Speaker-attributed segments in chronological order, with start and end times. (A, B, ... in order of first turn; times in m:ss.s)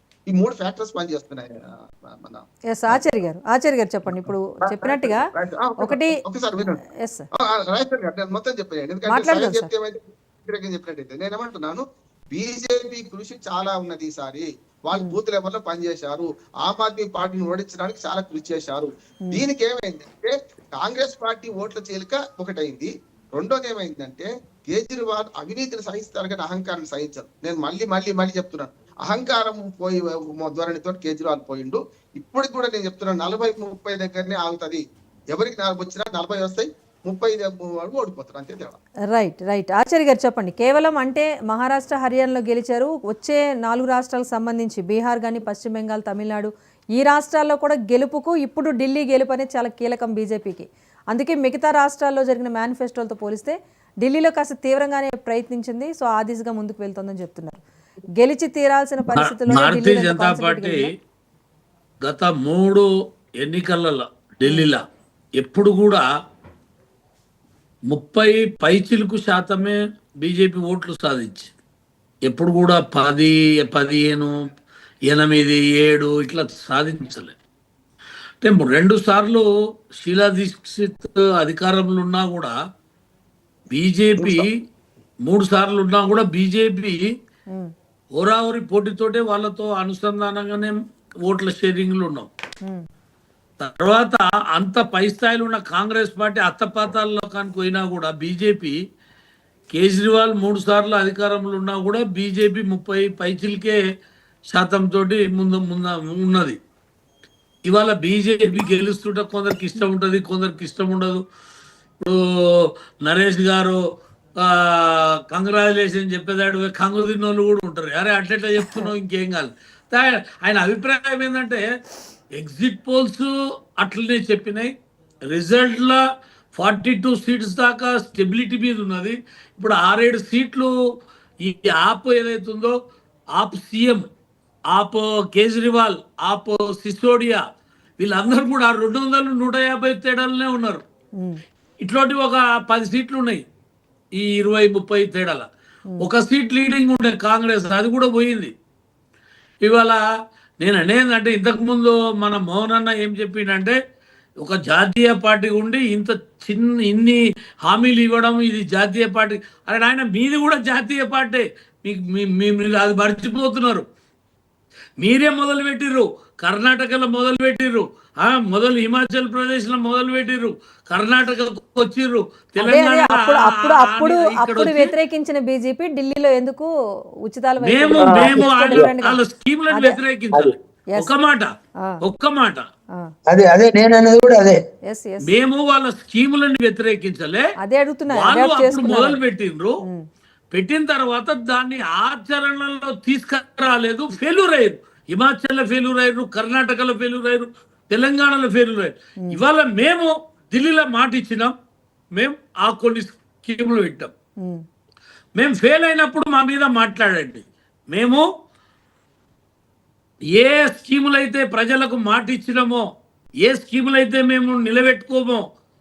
0:00.3-0:03.0 A
0:02.7-0:05.2 B
0:04.0-0:06.8 A
0:05.8-0:06.1 B
0:07.0-0:07.3 B
0:07.6-0:38.8 A
0:09.1-0:09.7 B
0:39.1-0:57.6 B
0:58.2-1:00.9 B
0:59.1-1:00.9 C
1:02.0-1:02.8 C
1:03.4-1:04.8 C
1:04.4-1:04.7 B
1:05.4-1:06.0 C
1:07.9-1:11.5 C
1:12.3-1:14.3 C
1:15.1-1:17.4 C
1:18.4-1:19.4 C
1:20.0-1:22.5 C
1:23.7-1:24.5 C
1:24.2-1:24.4 D
1:25.2-1:27.0 C
1:28.2-1:32.3 C
1:33.6-1:38.8 C
1:39.7-1:43.8 C
1:44.5-1:46.6 C
1:47.7-1:51.2 C
1:52.0-1:53.8 C
1:54.4-2:01.6 C
2:02.4-2:03.3 C
2:03.8-2:04.7 C
2:05.3-2:06.0 C
2:06.5-2:10.7 C
2:11.4-2:12.7 C
2:13.4-2:14.0 C
2:14.7-2:17.4 C
2:18.0-2:20.8 C
2:21.8-2:23.4 C
2:24.2-2:25.5 C
2:26.0-2:28.5 C
2:29.6-2:30.0 C
2:30.6-2:33.8 C
2:34.4-2:43.8 C
2:45.0-2:54.9 C
2:52.6-2:56.7 B
2:57.2-3:00.0 B
2:57.6-3:01.5 C
2:58.0-2:58.9 D
3:02.0-3:02.6 C
3:03.3-3:04.6 D
3:04.9-3:05.3 B
3:05.2-3:07.4 C
3:07.6-3:09.2 B
3:08.1-3:09.7 C
3:10.5-3:21.5 C
3:22.2-3:24.1 C
3:25.4-3:28.2 C
3:30.4-3:32.8 C
3:33.4-3:35.4 C